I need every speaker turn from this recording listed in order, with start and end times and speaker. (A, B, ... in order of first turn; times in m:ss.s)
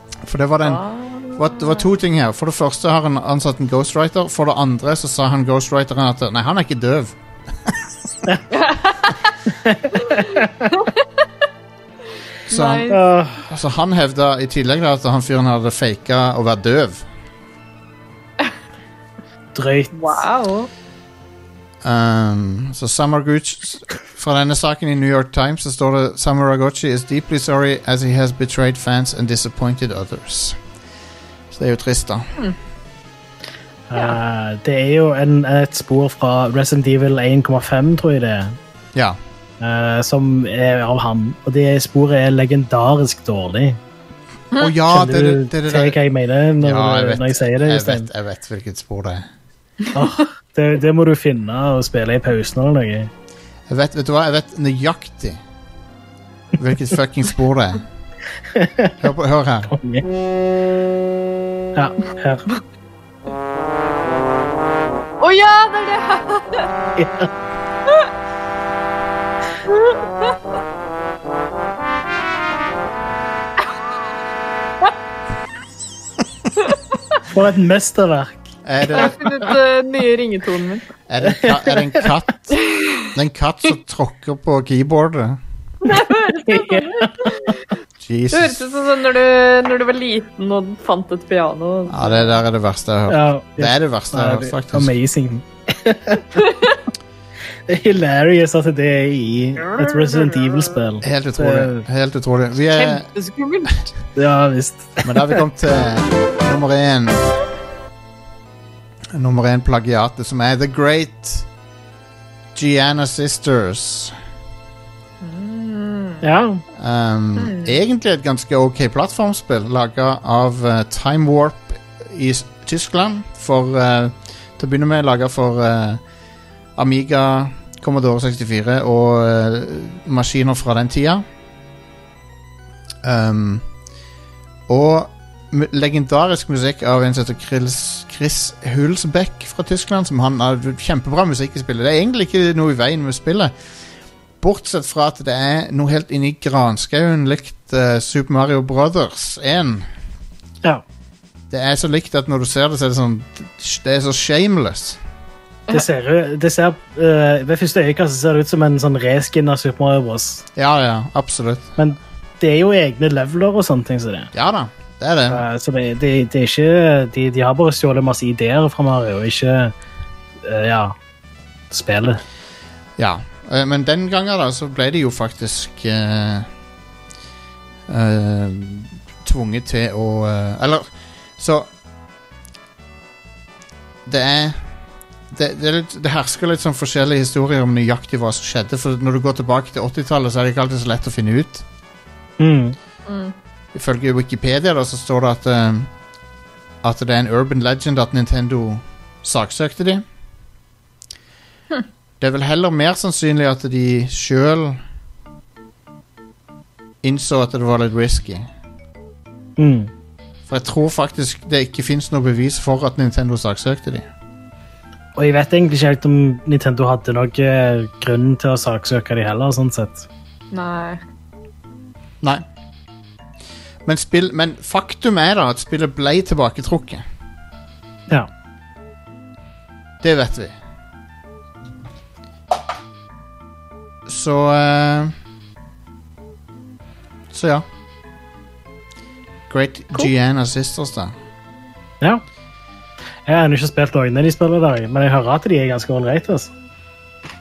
0:00.2-0:00.8 A
0:00.6-0:01.9 B
0:01.3-0:07.2 A
0:08.5-0:09.3 B
0:09.6-0:10.7 C
0:09.9-0:11.2 B
0:12.5-0:12.9 A
0:12.5-0:13.0 B
0:12.9-0:13.5 C
0:13.5-0:17.0 A
0:19.5-0:20.0 C
0:19.9-0:20.7 B
0:21.8-0:30.6 A
0:31.5-0:32.3 A
0:33.9-0:38.6 C
0:39.6-0:43.8 C
0:44.6-0:46.0 A
0:44.9-0:48.1 C
0:46.6-0:49.3 A
0:49.8-0:50.1 B
0:49.9-0:53.1 C
0:53.7-0:55.4 A
0:56.6-0:57.8 A
0:58.5-0:58.9 C
0:59.0-0:59.7 A
0:59.7-1:00.0 C
1:01.7-1:02.5 C
1:05.2-1:06.7 B
1:07.0-1:07.3 C
1:09.7-1:10.4 B
1:16.6-1:17.0 B
1:17.3-1:18.3 C
1:18.6-1:19.2 A
1:18.9-1:20.9 B
1:21.1-1:25.4 A
1:21.2-1:22.0 C
1:22.6-1:23.1 B
1:25.8-1:27.7 B
1:26.4-1:27.4 C
1:28.0-1:28.7 A
1:28.3-1:32.4 B
1:31.9-1:34.9 A
1:33.1-1:36.4 C
1:36.3-1:36.8 B
1:37.7-1:41.8 C
1:39.6-1:40.8 B
1:41.0-1:43.1 A
1:42.6-1:43.9 B
1:44.2-1:45.4 C
1:45.0-1:47.4 A
1:49.1-1:51.5 A
1:52.5-1:54.2 A
1:55.2-1:56.2 B
1:56.2-1:56.6 C
1:56.7-2:06.0 A
1:57.4-1:57.8 B
2:06.8-2:11.2 A
2:13.0-2:13.6 A
2:14.7-2:23.5 A
2:24.4-2:29.9 A
2:31.5-2:35.0 A
2:35.7-2:40.4 C
2:40.6-2:41.7 A
2:41.8-2:44.3 C
2:44.3-2:45.4 A
2:45.3-2:49.7 C
2:50.4-2:50.9 C
2:51.7-2:52.2 C
2:53.0-2:56.5 A
2:57.9-3:01.7 A
3:04.0-3:04.7 A
3:05.3-3:11.6 A
3:12.4-3:12.8 C
3:13.0-3:13.3 B
3:13.7-3:15.9 A
3:16.8-3:20.0 A
3:22.2-3:24.8 A
3:27.0-3:28.5 A
3:29.6-3:29.9 C
3:30.5-3:34.0 A
3:35.2-3:40.0 C
3:40.5-3:41.0 B
3:43.8-3:47.0 A
3:50.0-3:50.5 A
3:54.0-3:55.1 A
3:57.3-3:57.6 A
3:59.5-4:01.1 A
4:03.2-4:06.5 C